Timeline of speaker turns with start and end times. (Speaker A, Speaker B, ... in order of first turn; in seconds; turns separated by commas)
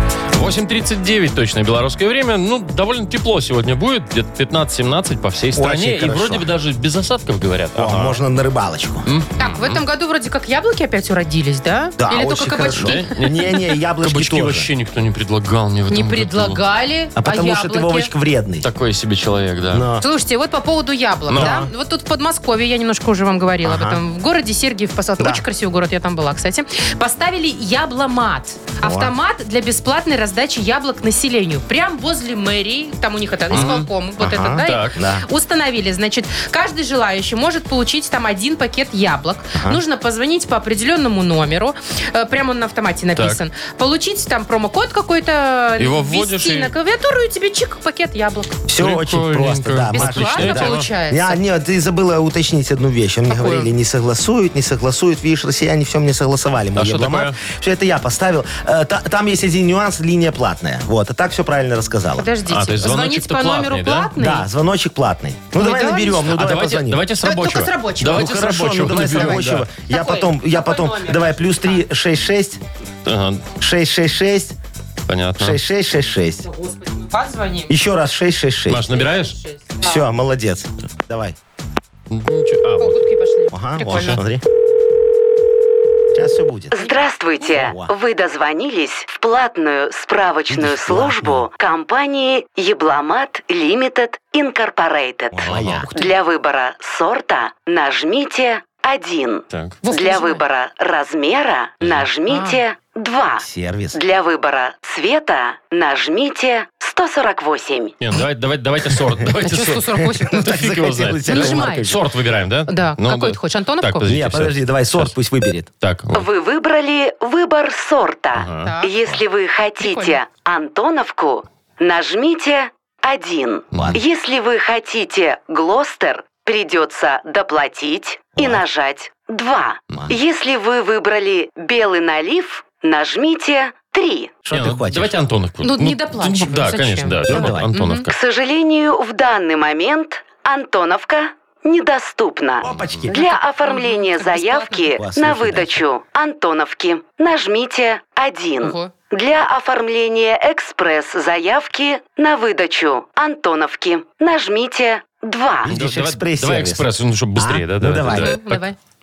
Speaker A: 0.3-8.2, Speaker B: 5.5-6.5, Speaker B: 7.8-9.1, Speaker A: 9.1-9.8, Speaker C: 9.4-13.0, Speaker B: 12.0-14.7, Speaker A: 12.8-16.6, Speaker C: 15.9-18.1, Speaker B: 17.1-18.7, Speaker A: 18.6-19.9, Speaker B: 19.7-20.0, Speaker C: 20.0-48.6, Speaker A: 21.3-21.5, Speaker B: 21.3-21.7, Speaker B: 23.6-24.0, Speaker B: 25.2-25.4, Speaker B: 28.8-29.1, Speaker B: 33.5-35.2, Speaker A: 33.5-33.9, Speaker A: 34.6-34.9, Speaker B: 39.5-39.8, Speaker A: 45.8-46.7, Speaker B: 48.7-62.3, Speaker A: 48.8-50.9, Speaker C: 49.9-51.4, Speaker C: 53.3-53.7, Speaker A: 56.8-57.4, Speaker C: 62.2-64.4, Speaker A: 62.5-64.1, Speaker B: 64.2-67.0, Speaker C: 65.6-66.3, Speaker A: 66.3-69.7, Speaker C: 67.2-68.3, Speaker B: 68.0-72.6, Speaker C: 69.9-71.8, Speaker A: 73.0-73.5, Speaker B: 73.6-74.5, Speaker A: 75.1-75.6, Speaker B: 75.4-76.5, Speaker C: 76.4-77.7, Speaker B: 77.7-78.9, Speaker A: 78.7-79.3, Speaker C: 79.3-80.0, Speaker B: 79.8-81.4, Speaker A: 82.1-82.9, Speaker C: 82.8-84.2, Speaker B: 83.5-84.4, Speaker A: 83.9-84.2, Speaker B: 86.1-86.8, Speaker D: 86.7-108.0, Speaker C: 86.8-87.1, Speaker B: 87.4-87.9, Speaker B: 90.5-91.5, Speaker B: 95.3-96.0, Speaker A: 95.4-95.9, Speaker A: 99.5-99.8, Speaker C: 99.8-100.4, Speaker C: 102.3-102.6, Speaker B: 103.4-104.0, Speaker A: 108.0-115.1, Speaker C: 109.4-110.5, Speaker B: 110.2-112.0, Speaker C: 111.2-111.9, Speaker C: 112.7-114.1, Speaker B: 114.0-115.7, Speaker A: 115.8-116.2, Speaker D: 116.1-134.4, Speaker A: 118.4-118.7, Speaker C: 118.6-118.9, Speaker C: 119.8-120.2, Speaker B: 123.7-124.0, Speaker B: 128.3-128.6, Speaker B: 134.4-135.1, Speaker A: 134.5-138.1, Speaker C: 135.6-138.1, Speaker B: 137.3-137.7, Speaker D: 138.1-155.7, Speaker B: 142.6-143.2, Speaker C: 143.1-144.9, Speaker B: 144.8-145.8, Speaker C: 148.6-148.9, Speaker B: 155.6-156.8, Speaker A: 155.7-158.6, Speaker B: 157.4-158.4, Speaker C: 158.1-158.7